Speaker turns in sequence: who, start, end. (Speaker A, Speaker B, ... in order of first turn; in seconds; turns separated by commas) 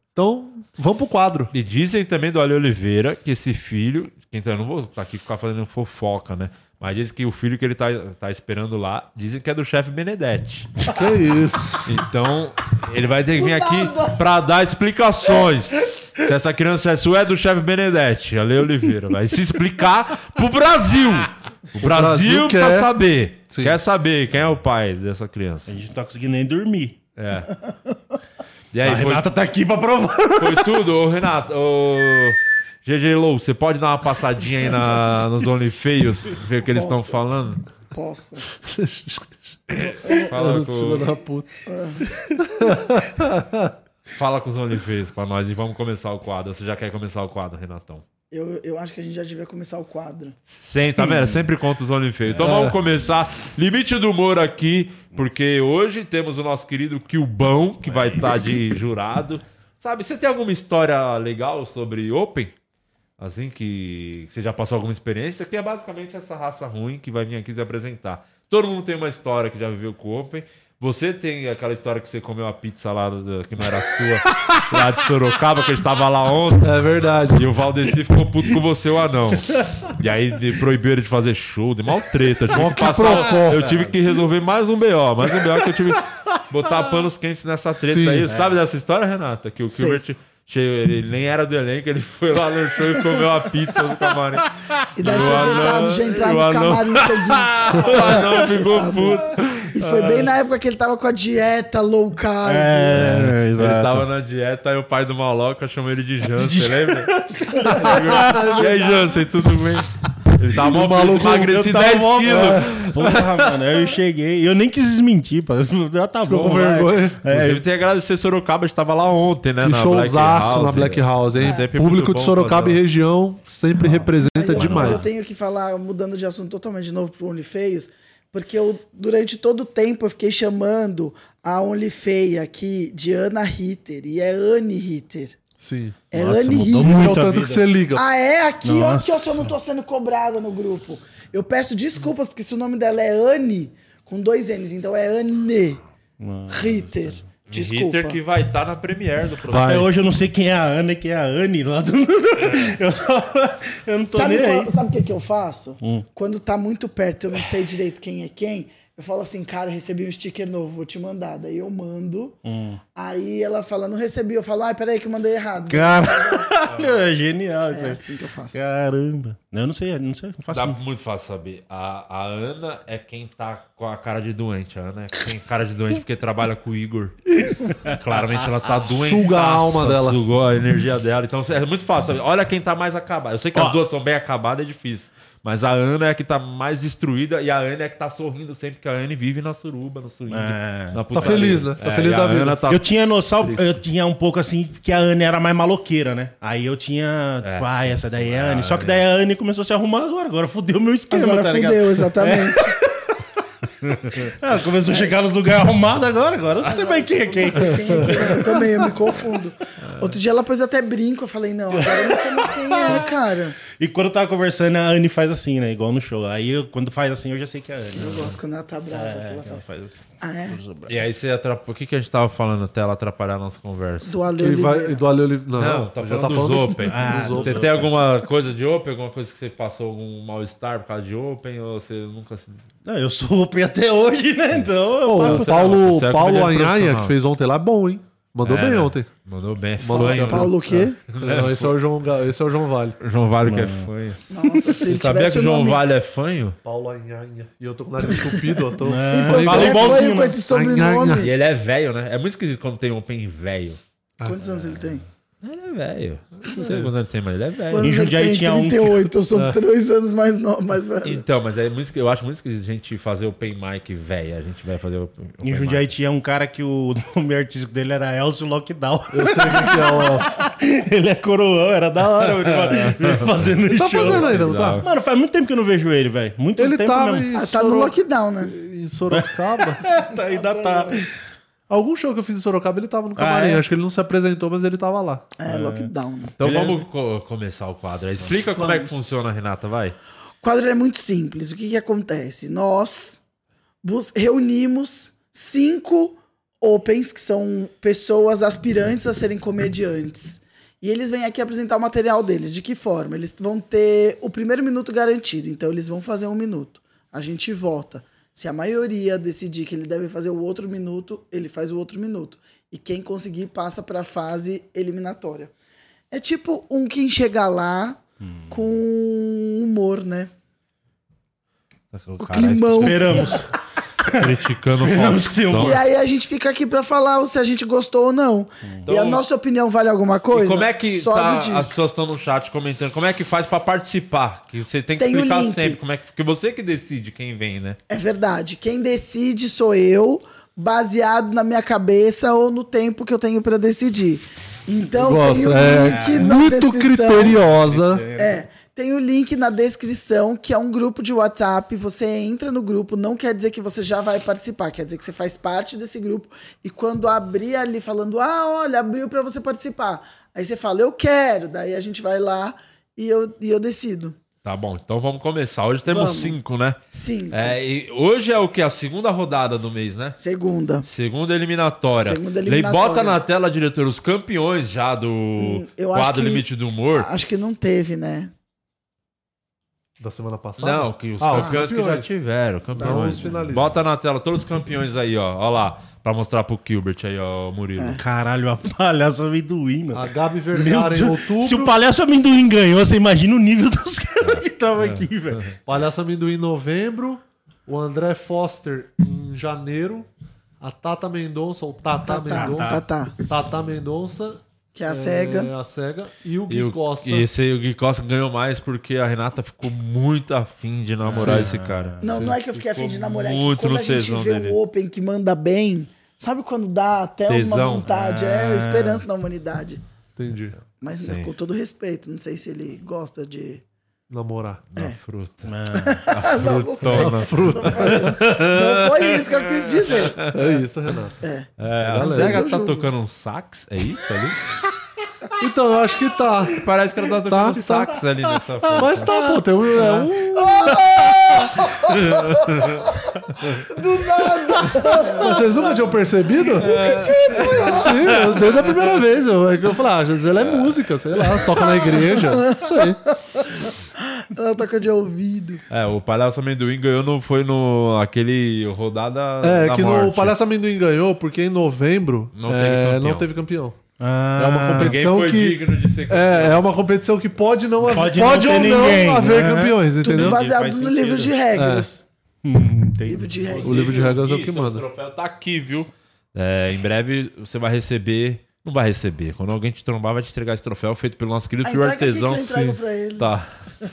Speaker A: 0.1-1.5, Speaker B: 1.5-10.7, Speaker A: 10.9-12.0, Speaker B: 11.9-25.7, Speaker C: 13.4-14.2, Speaker A: 21.8-22.9, Speaker A: 23.5-23.8, Speaker D: 25.7-27.0, Speaker B: 27.2-27.5, Speaker B: 28.7-29.2, Speaker D: 28.8-30.8, Speaker B: 30.4-37.6, Speaker C: 36.7-37.2, Speaker C: 37.9-38.5, Speaker A: 38.6-39.6, Speaker B: 39.8-41.1, Speaker A: 40.3-41.5, Speaker C: 41.7-42.0, Speaker A: 42.5-43.7, Speaker B: 44.1-48.0, Speaker C: 48.3-50.4, Speaker B: 50.5-62.5, Speaker A: 52.4-52.8, Speaker D: 57.9-58.3, Speaker B: 63.2-100.3, Speaker A: 76.6-77.5, Speaker A: 82.5-83.8, Speaker A: 87.8-88.3, Speaker C: 89.7-90.0, Speaker C: 95.0-103.2, Speaker D: 95.2-95.5, Speaker D: 102.4-104.1, Speaker B: 103.0-107.1, Speaker D: 106.3-108.7, Speaker B: 107.6-113.6, Speaker A: 107.9-108.8, Speaker A: 110.6-112.7, Speaker D: 111.5-117.6, Speaker A: 116.2-117.2, Speaker B: 117.3-122.8, Speaker A: 119.6-125.1, Speaker C: 124.2-135.4, Speaker B: 124.5-125.1, Speaker A: 135.6-138.0, Speaker C: 136.1-137.2, Speaker D: 136.8-137.6, Speaker C: 137.9-145.8, Speaker D: 138.6-139.5, Speaker D: 146.2-146.9, Speaker C: 146.5-148.2, Speaker B: 147.5-149.8, Speaker A: 149.5-149.9, Speaker D: 149.6-154.7, Speaker C: 154.1-162.4, Speaker D: 155.8-156.1, Speaker D: 162.4-162.8, Speaker C: 163.0-166.6, Speaker D: 165.7-168.0, Speaker C: 167.7-168.6, Speaker D: 168.5-170.8, Speaker B: 170.5-177.2, Speaker B: 177.8-192.8, Speaker A: 178.9-180.2, Speaker D: 190.3-191.6, Speaker A: 191.1-192.6, Speaker D: 192.7-203.0, Speaker B: 193.4-193.7, Speaker B: 197.4-199.0, Speaker C: 201.1-202.7, Speaker D: 203.8-208.6, Speaker C: 204.9-205.3, Speaker C: 206.7-213.6, Speaker D: 211.8-212.1, Speaker D: 212.8-213.0, Speaker D: 213.8-220.9, Speaker C: 217.9-219.7, Speaker C: 220.2-220.6, Speaker B: 220.9-224.2, Speaker C: 224.1-225.0, Speaker A: 224.4-227.6, Speaker B: 225.6-232.6, Speaker D: 226.9-227.8, Speaker D: 232.8-235.7, Speaker A: 235.1-239.1, Speaker B: 235.2-237.1, Speaker B: 238.4-241.7, Speaker A: 239.8-243.0, Speaker C: 239.9-241.0, Speaker B: 243.0-244.2, Speaker D: 243.4-243.9, Speaker C: 244.3-245.8, Speaker B: 244.9-246.6, Speaker A: 246.6-251.3, Speaker C: 248.1-251.3, Speaker D: 248.8-250.4, Speaker B: 249.5-250.0, Speaker B: 251.2-253.8, Speaker C: 254.2-255.0, Speaker B: 255.4-257.9, Speaker A: 256.6-256.9, Speaker C: 257.7-261.2, Speaker D: 257.8-259.1, Speaker A: 259.3-259.6, Speaker B: 261.0-265.8, Speaker D: 265.4-277.3, Speaker A: 269.1-270.3, Speaker B: 272.2-273.3, Speaker A: 273.7-274.8, Speaker B: 274.0-274.9, Speaker A: 276.6-279.8, Speaker C: 277.3-278.5, Speaker D: 279.1-281.1, Speaker C: 280.3-281.0, Speaker A: 281.7-285.3, Speaker D: 283.2-283.6, Speaker C: 285.4-286.4, Speaker D: 285.5-285.9, Speaker B: 286.4-290.0, Speaker D: 286.4-286.8, Speaker C: 288.6-289.0, Speaker C: 290.4-293.2, Speaker C: 293.8-315.5, Speaker C: 316.1-320.3, Speaker D: 318.2-318.5, Speaker B: 321.9-323.4, Speaker C: 322.2-323.5, Speaker D: 322.8-323.5, Speaker D: 324.0-325.8, Speaker B: 324.2-325.8, Speaker C: 325.6-331.7, Speaker B: 328.9-329.2, Speaker B: 330.3-337.8, Speaker C: 335.0-335.8, Speaker C: 337.9-347.4, Speaker A: 345.0-348.1, Speaker D: 345.7-346.3, Speaker D: 347.4-348.4, Speaker C: 348.2-364.2, Speaker B: 364.4-366.8, Speaker C: 365.9-366.4, Speaker C: 366.9-367.6, Speaker B: 367.3-370.2, Speaker C: 370.2-370.9, Speaker B: 370.8-377.1, Speaker C: 372.1-373.2, Speaker C: 375.4-378.3, Speaker A: 380.0-382.1, Speaker B: 380.6-388.0, Speaker C: 381.3-381.6, Speaker A: 382.7-383.8, Speaker C: 382.8-383.3, Speaker D: 388.0-395.4, Speaker A: 389.9-391.7, Speaker B: 394.2-395.4, Speaker A: 395.7-400.1, Speaker A: 400.6-407.3, Speaker C: 402.1-403.1, Speaker D: 402.4-402.8, Speaker C: 404.8-405.5, Speaker B: 406.5-414.6, Speaker D: 411.1-412.3, Speaker A: 411.1-411.5, Speaker C: 412.0-419.8, Speaker B: 417.3-417.9, Speaker D: 417.9-419.1, Speaker A: 420.2-420.6, Speaker C: 420.8-423.6, Speaker B: 421.0-421.3, Speaker A: 424.1-424.6, Speaker B: 424.7-425.5, Speaker D: 425.5-426.0, Speaker C: 425.8-430.2, Speaker B: 426.1-430.4, Speaker A: 426.8-428.2, Speaker A: 430.3-431.2, Speaker C: 431.2-432.9, Speaker B: 431.6-434.4, Speaker A: 431.8-432.5, Speaker A: 435.4-436.6, Speaker B: 436.6-439.1, Speaker A: 437.3-438.0, Speaker A: 438.8-440.8, Speaker C: 440.4-442.7, Speaker C: 443.7-445.9, Speaker A: 445.2-446.8, Speaker C: 446.6-448.4, Speaker B: 446.6-448.6, Speaker A: 447.6-453.0, Speaker B: 450.4-450.7, Speaker C: 451.6-455.6, Speaker B: 455.7-460.4, Speaker A: 459.4-463.8, Speaker B: 462.4-463.3, Speaker D: 464.0-465.0, Speaker A: 464.4-470.4, Speaker B: 464.8-466.6, Speaker D: 467.9-471.4, Speaker C: 470.0-472.1, Speaker A: 471.6-471.9, Speaker D: 472.4-473.4, Speaker C: 473.1-473.9, Speaker B: 473.5-483.5, Speaker A: 473.6-474.8, Speaker C: 481.6-483.3